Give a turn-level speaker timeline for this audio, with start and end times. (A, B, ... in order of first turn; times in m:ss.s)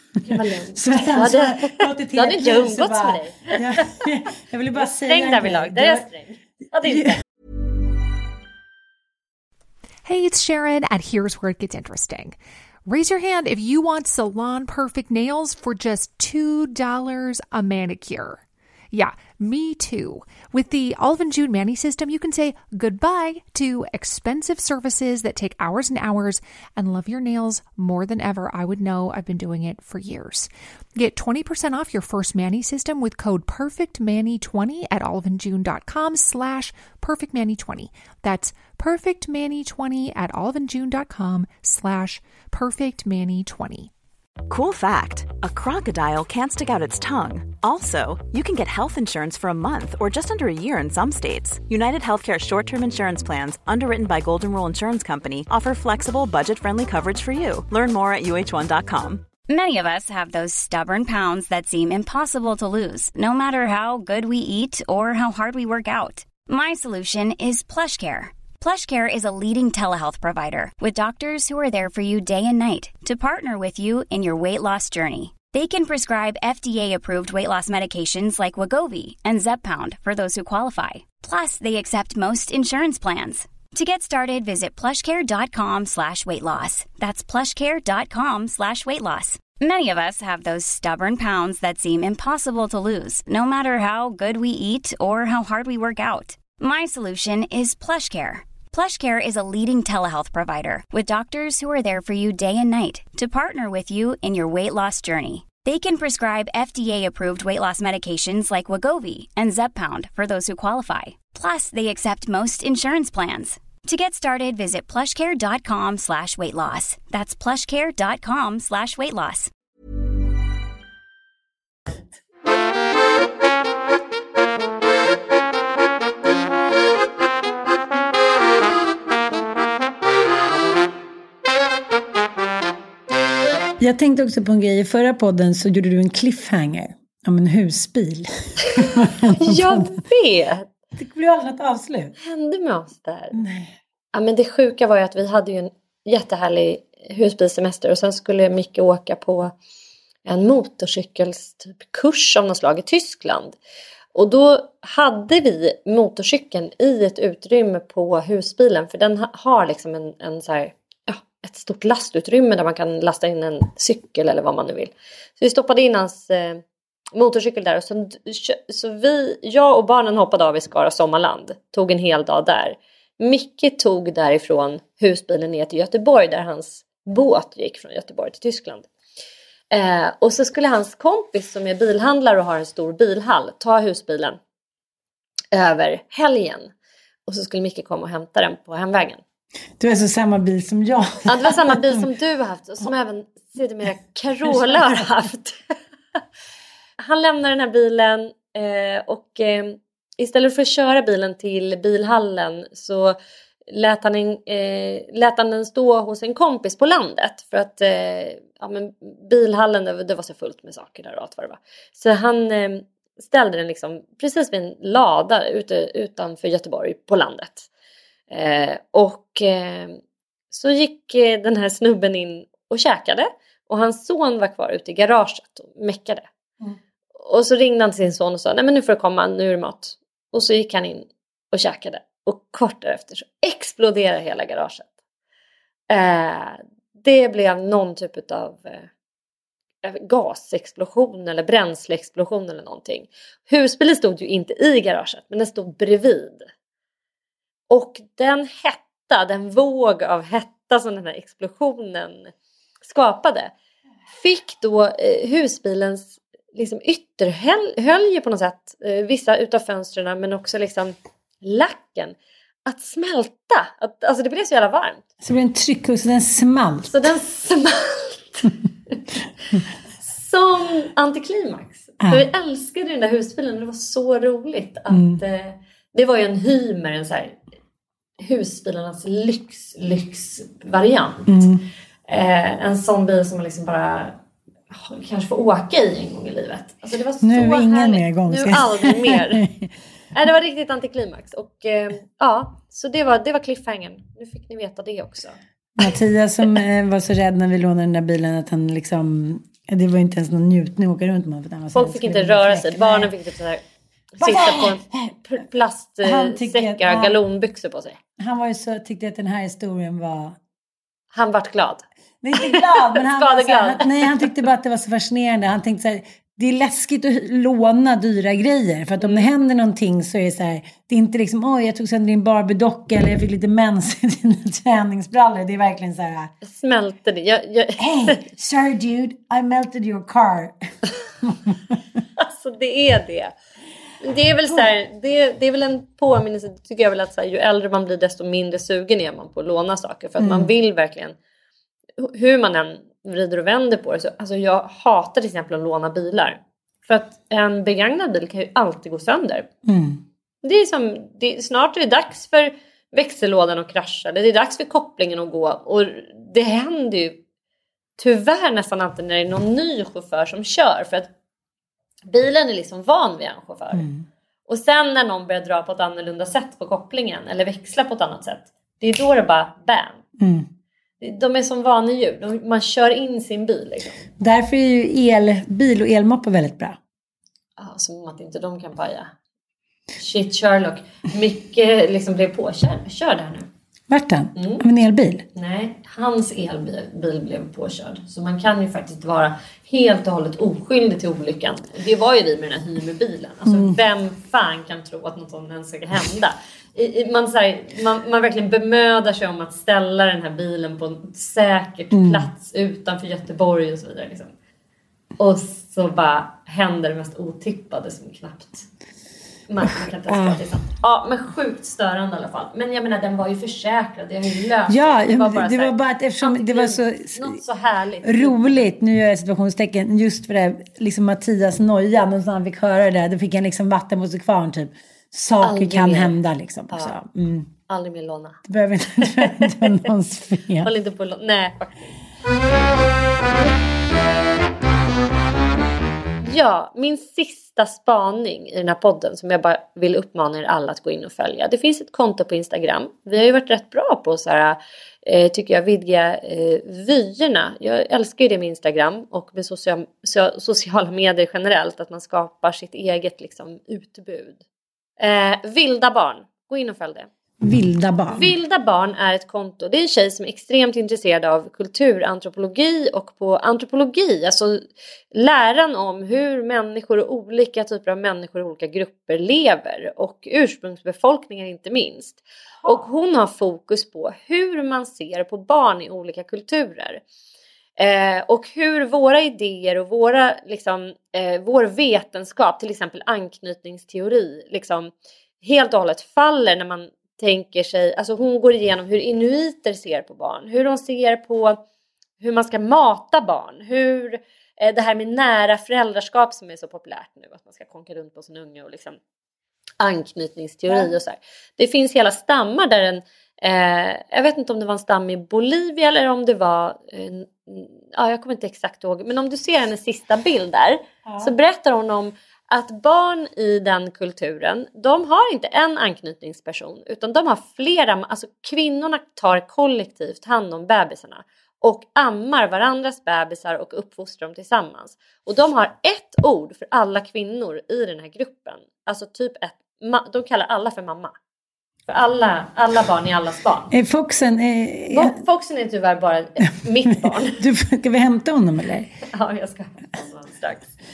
0:00.2-0:04.0 A
0:00.3-0:06.1 B
0:04.8-0:07.1 A
0:06.8-0:07.2 B
0:10.0-0:43.9 C
0:44.5-0:59.2 D
0:59.5-1:59.5 E
2:13.8-2:20.0 B
2:18.8-2:20.7 A
2:21.0-2:22.1 B
2:22.2-2:23.4 A
2:23.3-2:23.7 B
2:24.1-2:29.5 A
2:30.2-2:33.6 A
2:34.1-2:46.6 A
2:47.1-2:58.9 A
2:59.7-3:04.4 A
3:05.5-3:06.7 A
3:07.3-3:09.2 A
3:09.8-3:12.0 B
3:11.3-3:15.7 A
3:14.5-3:15.0 B
3:17.0-3:23.2 A
3:23.7-3:37.7 A
3:38.3-3:40.0 A
3:40.5-3:46.3 A
3:47.2-3:54.9 A
3:55.9-3:58.9 A
3:59.8-4:06.5 A
4:07.7-4:12.3 A
4:12.8-4:13.5 A
4:14.2-4:25.0 A
4:25.2-4:27.0 B
4:26.9-4:29.0 A
4:30.0-4:37.4 A
4:34.9-4:35.2 B
4:38.2-4:41.5 A
4:41.3-4:41.6 B
4:42.1-4:44.2 A
4:44.7-4:49.4 A
4:47.2-4:49.7 B
4:50.1-4:55.4 A
4:55.8-5:03.1 B
5:01.7-5:03.6 A
5:04.2-5:08.0 A
5:04.2-5:05.2 B
5:06.0-5:07.2 B
5:08.2-5:10.4 B
5:11.1-5:11.8 A
5:12.2-5:26.3 B
5:12.4-5:14.2 A
5:19.0-5:19.2 A
5:26.4-5:28.2 A
5:27.8-5:31.8 B
5:32.2-5:33.3 A
5:34.0-5:41.1 A
5:40.2-5:40.5 B
5:42.0-5:49.5 A
5:49.6-5:50.0 B
5:50.4-5:57.2 A
5:58.0-6:01.1 A
6:02.0-6:03.9 A
6:03.7-6:04.0 B
6:04.5-6:10.0 A
6:10.2-6:10.5 B
6:11.0-6:14.0 A
6:14.2-6:16.8 B
6:17.6-6:19.1 A
6:20.0-6:23.5 A
6:23.9-6:25.2 B
6:24.4-6:24.6 A
6:25.3-6:44.3 A
6:33.4-6:33.8 B
6:41.9-6:42.3 B
6:45.2-6:48.6 A
6:49.5-6:58.7 A
6:49.6-6:50.4 B
6:54.7-6:57.4 B
6:58.0-7:07.5 B
7:05.4-7:06.2 A
7:07.7-7:08.4 A
7:08.4-7:10.7 B
7:09.0-7:09.7 A
7:10.6-7:11.9 A
7:16.2-7:34.4 A
7:35.0-7:37.1 A
7:37.4-7:38.3 B
7:38.1-7:57.0 A
7:57.8-8:04.9 A
8:05.4-8:11.6 A
8:12.2-8:19.0 A
8:19.8-8:51.1 A
8:31.0-8:31.3 B
8:51.9-8:53.7 A
8:53.7-8:55.1 B
8:54.9-8:57.4 A
8:56.9-8:58.9 B
8:59.1-9:00.7 A